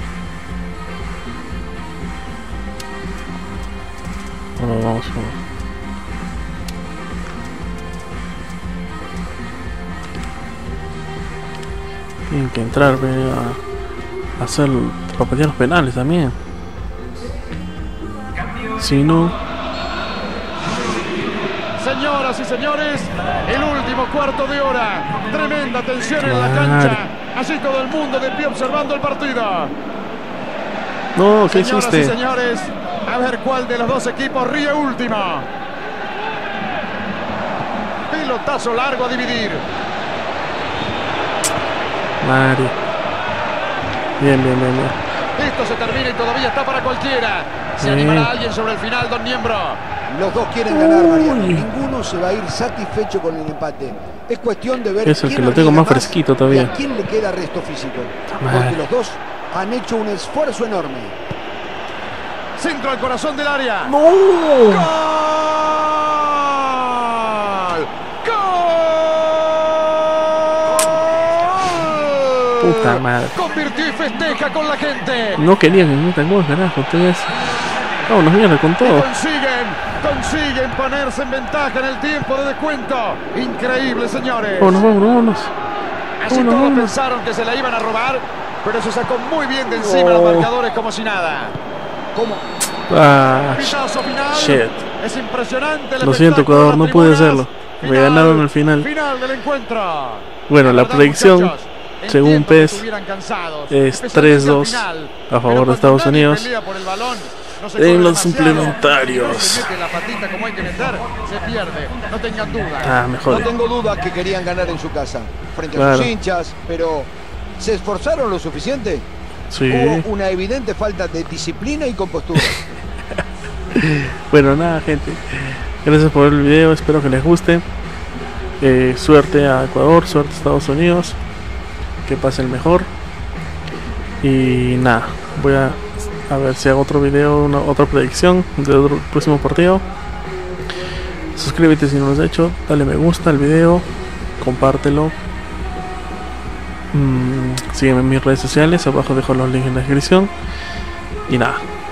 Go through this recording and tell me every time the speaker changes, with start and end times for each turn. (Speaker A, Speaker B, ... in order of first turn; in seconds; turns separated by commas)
Speaker A: 4.6-5.4, Speaker A: 12.3-13.6, Speaker A: 14.4-16.4, Speaker A: 18.8-19.4, Speaker B: 21.8-29.7, Speaker A: 26.2-27.0, Speaker A: 31.1-32.2, Speaker B: 31.5-35.5, Speaker B: 38.1-39.6, Speaker A: 42.2-42.8, Speaker A: 44.2-45.0, Speaker B: 45.4-49.8, Speaker A: 47.8-48.3, Speaker C: 50.1-61.1, Speaker A: 50.7-51.7, Speaker A: 55.0-56.7, Speaker A: 58.3-58.8, Speaker B: 62.5-64.0, Speaker A: 63.9-64.9, Speaker B: 64.7-75.4, Speaker A: 72.6-73.4, Speaker A: 75.4-77.5, Speaker A: 78.1-79.1, Speaker B: 78.8-84.8, Speaker A: 84.6-85.5, Speaker B: 86.2-91.6, Speaker A: 86.3-87.0, Speaker A: 89.7-90.5, Speaker C: 92.1-92.5, Speaker A: 92.9-93.8, Speaker B: 93.5-113.0, Speaker A: 94.3-94.8, Speaker A: 96.0-98.9, Speaker A: 100.5-101.5, Speaker A: 102.1-102.8, Speaker A: 103.7-106.5, Speaker A: 107.8-109.8, Speaker A: 112.8-113.5, Speaker C: 113.3-119.1, Speaker A: 115.7-116.2, Speaker A: 119.5-120.1, Speaker C: 119.7-122.7, Speaker A: 122.4-122.7, Speaker A: 123.7-127.7, Speaker A: 128.6-131.2, Speaker A: 132.0-132.9, Speaker A: 134.2-139.8, Speaker A: 141.3-143.9, Speaker A: 144.4-145.2, Speaker A: 146.9-150.3, Speaker A: 151.3-151.7